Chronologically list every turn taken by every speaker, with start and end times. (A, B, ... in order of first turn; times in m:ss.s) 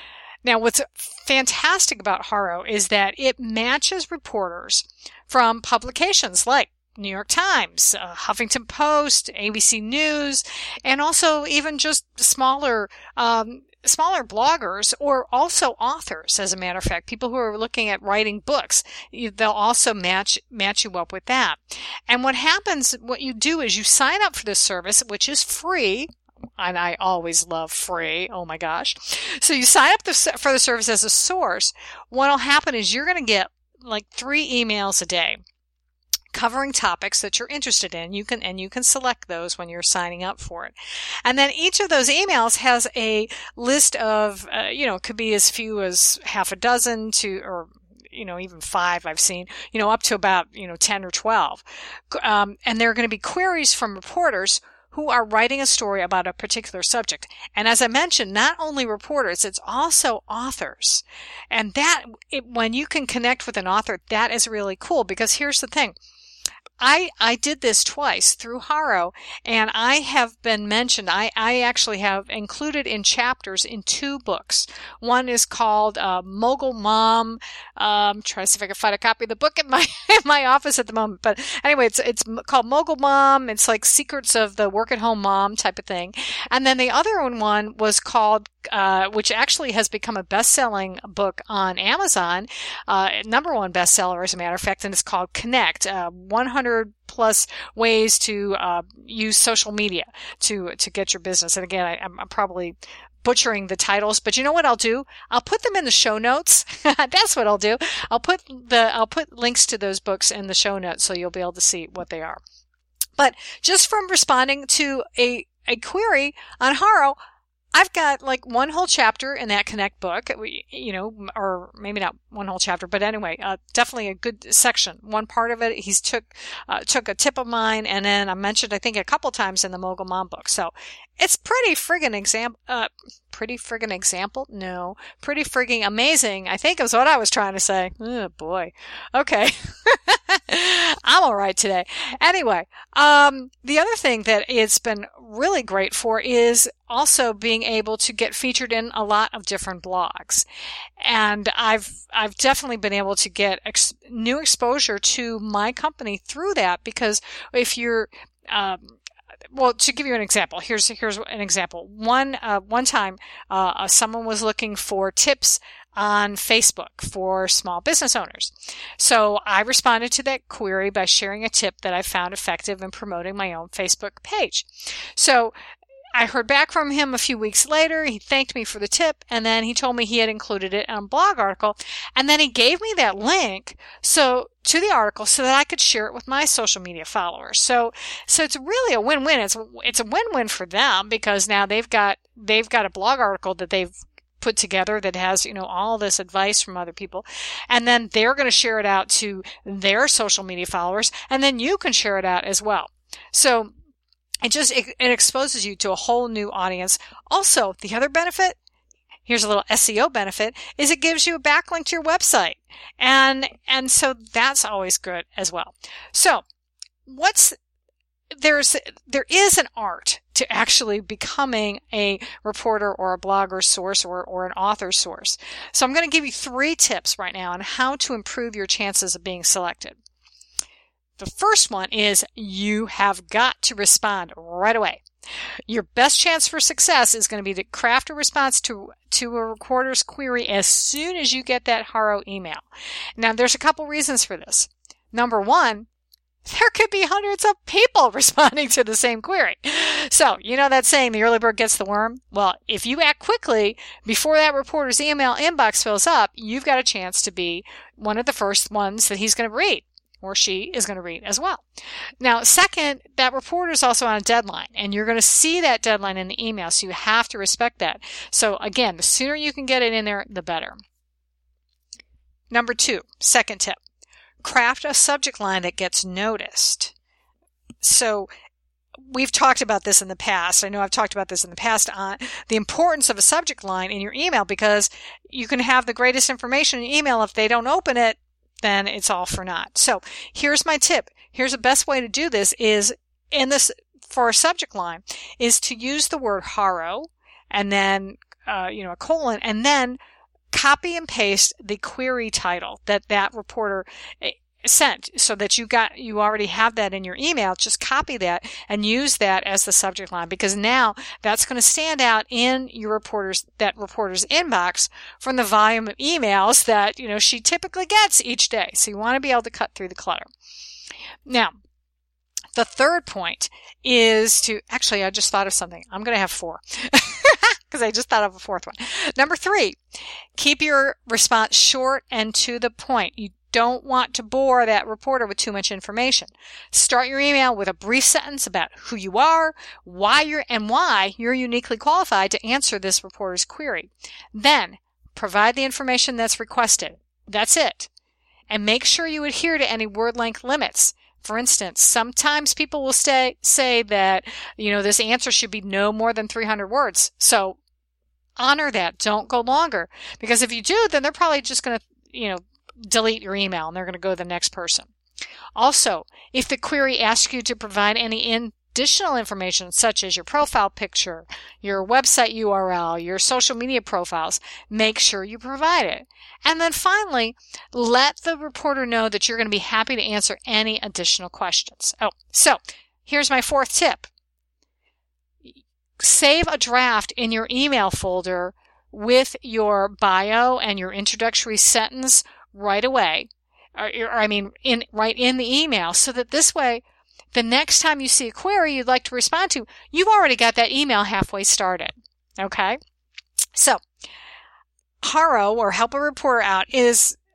0:00.4-0:35.4 A
0:36.3-1:06.0 A
1:06.8-1:52.4 A
1:53.2-1:57.2 A
1:57.7-2:30.5 A
2:31.0-2:39.0 A
2:39.5-2:55.6 A
2:56.2-3:23.7 A
3:24.4-3:28.6 A
3:29.2-3:36.4 A
3:37.1-3:37.6 A
3:38.3-3:50.0 A
3:51.2-3:55.0 A
3:55.7-4:02.6 A
4:03.2-4:05.9 A
4:06.4-4:21.6 A
4:22.2-4:30.8 A
4:32.5-4:33.8 A
4:34.4-4:36.9 A
4:37.8-4:38.3 A
4:39.0-5:00.0 A
5:00.5-5:20.3 A
5:21.3-5:21.5 A
5:22.6-5:29.8 A
5:30.4-5:47.9 A
5:48.5-5:57.6 A
5:58.4-6:04.9 A
6:05.6-6:24.1 A
6:25.4-6:42.8 A
6:43.6-6:43.8 A
6:45.0-6:47.2 A